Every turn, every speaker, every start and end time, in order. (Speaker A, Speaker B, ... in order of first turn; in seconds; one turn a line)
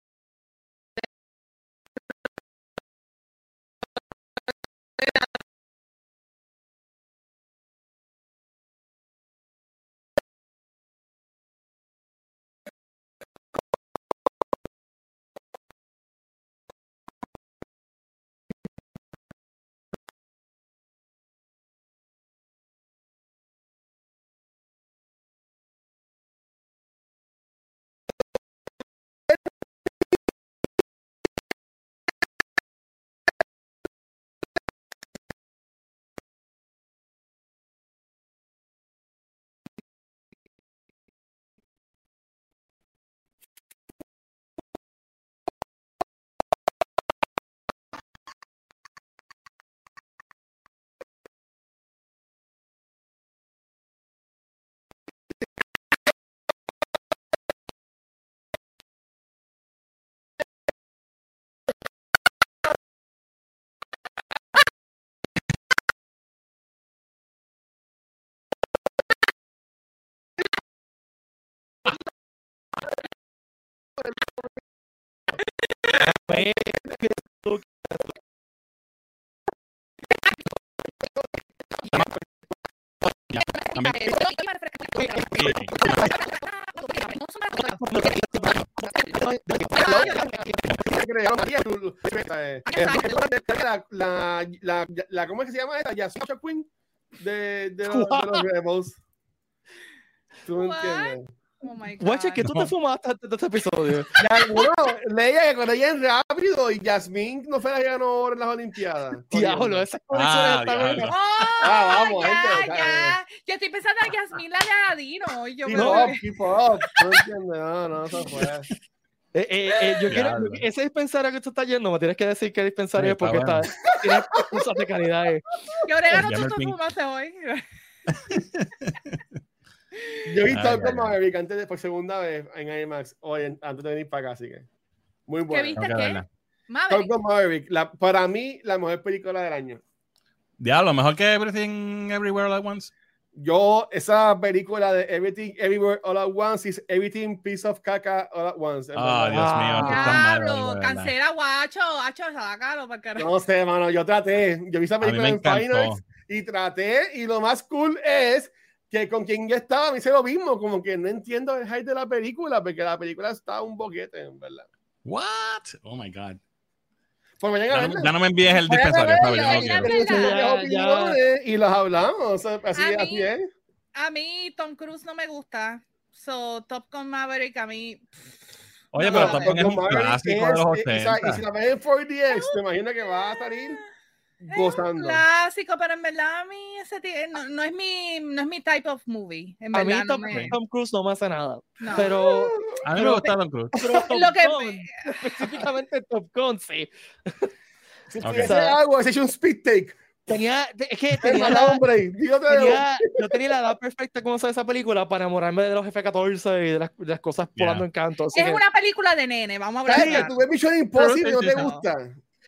Speaker A: 76.0-78.0
Speaker B: 83.3-84.2
Speaker C: 83.4-88.5
Speaker A: 85.0-86.1
Speaker B: 85.3-86.1
Speaker A: 87.6-91.0
Speaker C: 89.7-90.2
Speaker D: 89.7-96.7
Speaker C: 92.7-93.3
Speaker D: 97.2-99.0
Speaker A: 97.8-98.5
Speaker D: 100.5-101.2
Speaker C: 100.5-102.4
Speaker A: 102.0-104.1
Speaker B: 102.4-102.7
Speaker D: 104.2-109.9
Speaker A: 109.3-111.2
Speaker B: 110.1-111.2
Speaker C: 111.0-116.2
Speaker D: 111.6-113.2
Speaker D: 115.7-118.7
Speaker A: 115.7-116.1
Speaker A: 119.3-125.4
Speaker B: 120.1-120.7
Speaker B: 123.0-123.7
Speaker D: 123.8-124.7
Speaker C: 125.8-127.6
Speaker B: 126.1-126.8
Speaker B: 128.3-129.2
Speaker D: 130.3-134.7
Speaker B: 130.5-131.1
Speaker D: 135.3-135.9
Speaker C: 135.5-137.1
Speaker B: 135.8-136.3
Speaker D: 136.9-139.8
Speaker B: 140.6-142.9
Speaker D: 143.4-149.6
Speaker B: 148.9-151.1
Speaker A: 149.3-150.2
Speaker C: 149.8-153.3
Speaker D: 153.2-164.7
Speaker B: 155.0-156.0
Speaker B: 165.1-166.4
Speaker D: 167.4-168.1
Speaker B: 167.7-169.9
Speaker D: 168.7-173.5
Speaker C: 169.2-170.4
Speaker A: 169.9-171.2
Speaker C: 172.8-173.3
Speaker C: 173.9-178.3
Speaker B: 178.9-181.4
Speaker C: 179.0-179.6
Speaker D: 179.0-183.8
Speaker C: 182.3-182.6
Speaker C: 183.1-183.8
Speaker D: 184.4-185.2
Speaker C: 184.5-190.6
Speaker A: 189.7-197.5
Speaker C: 191.8-192.1
Speaker D: 191.9-192.8
Speaker B: 192.8-193.8
Speaker C: 193.8-195.6
Speaker D: 198.1-200.0
Speaker B: 198.2-198.6
Speaker A: 198.4-198.8
Speaker A: 200.3-201.8
Speaker D: 201.2-203.5
Speaker A: 202.5-208.6
Speaker B: 207.6-207.8
Speaker C: 208.3-210.3
Speaker D: 209.9-212.2
Speaker A: 209.9-210.3
Speaker B: 210.9-211.7
Speaker C: 211.5-211.8